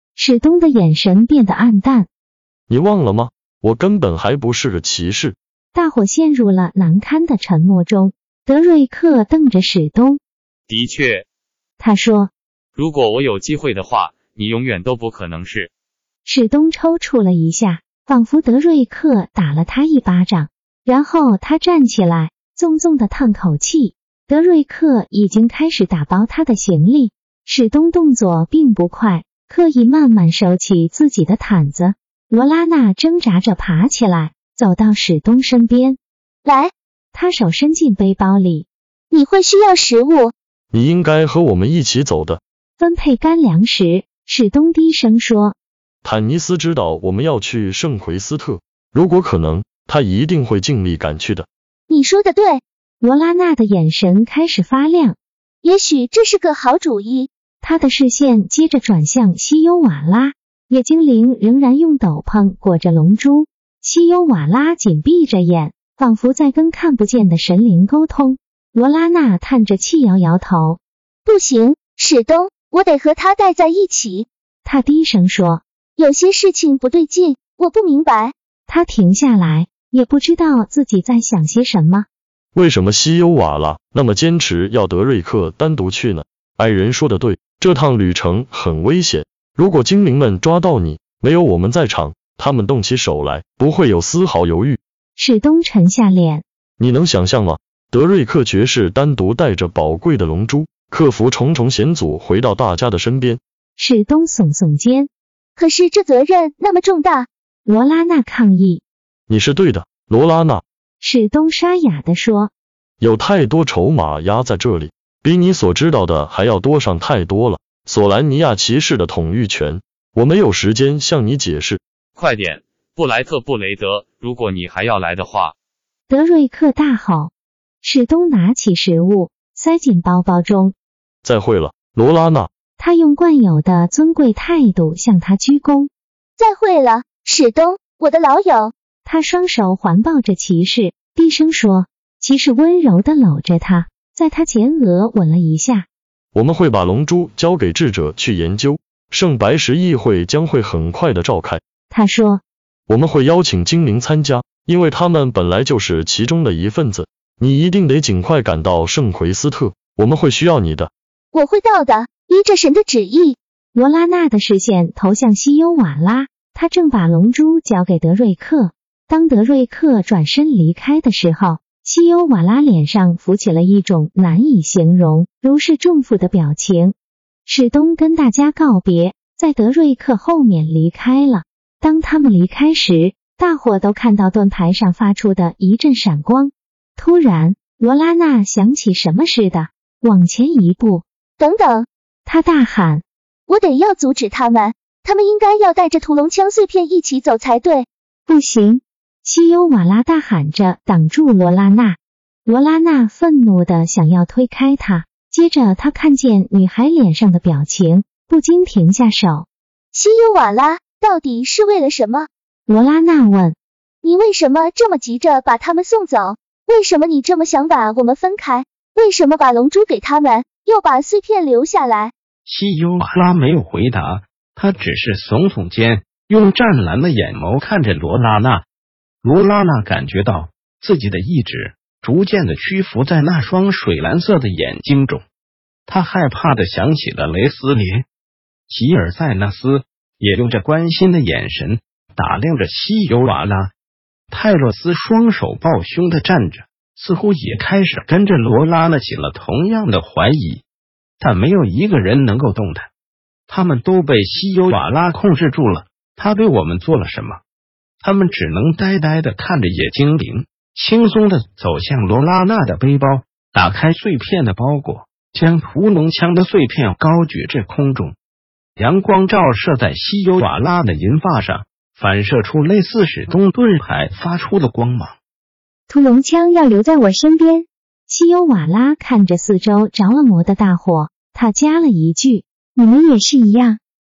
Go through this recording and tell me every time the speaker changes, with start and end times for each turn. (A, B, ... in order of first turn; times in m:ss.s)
0:00.2-0:02.1 A
0:02.7-0:05.4 B
0:05.7-0:10.2 A
0:10.7-0:11.2 C
0:11.8-0:12.3 A
0:12.8-0:15.7 C
0:16.2-0:36.0 A
0:36.4-0:36.7 D
0:37.1-0:38.7 A
0:39.1-0:40.3 D
0:40.7-0:42.4 B
0:42.8-0:45.6 A
0:46.0-0:51.5 B
0:51.9-0:52.6 D
0:53.0-0:55.2 A
0:55.6-0:57.3 D
0:57.6-1:10.8 A
1:11.2-1:14.3 D
1:14.6-1:15.6 A
1:16.0-1:18.3 D
1:18.7-1:22.1 A
1:22.5-1:34.8 B
1:35.2-1:36.4 A
1:36.8-1:43.4 B
1:43.8-1:45.1 A
1:45.6-1:47.3 D
1:47.6-1:48.8 A
1:49.3-1:50.6 B
1:51.0-1:52.5 A
1:53.0-2:01.8 B
2:02.1-2:05.5 C
2:06.1-2:07.3 A
2:07.8-2:10.7 A
2:11.2-2:12.5 B
2:12.8-2:15.9 A
2:16.4-2:18.7 D
2:19.0-2:25.9 A
2:26.3-2:31.6 B
2:31.9-2:32.4 A
2:32.9-2:40.9 B
2:41.3-2:43.4 D
2:43.7-2:56.9 A
2:57.4-3:11.0 A
3:11.4-3:11.9 D
3:12.2-3:13.0 A
3:13.5-3:17.9 D
3:18.3-3:18.8 E
3:19.2-3:29.5 A
3:29.9-3:32.3 D
3:32.7-3:33.6 A
3:34.0-3:42.1 D
3:42.4-3:48.6 F
3:49.2-3:55.2 F
3:55.9-3:58.0 F
3:58.7-4:03.7 F
4:04.3-4:10.6 F
4:11.2-4:12.9 F
4:13.5-4:17.4 F
4:18.0-4:28.2 F
4:28.8-4:35.2 F
4:35.9-4:37.7 E
4:38.1-4:42.4 A
4:42.8-4:43.8 E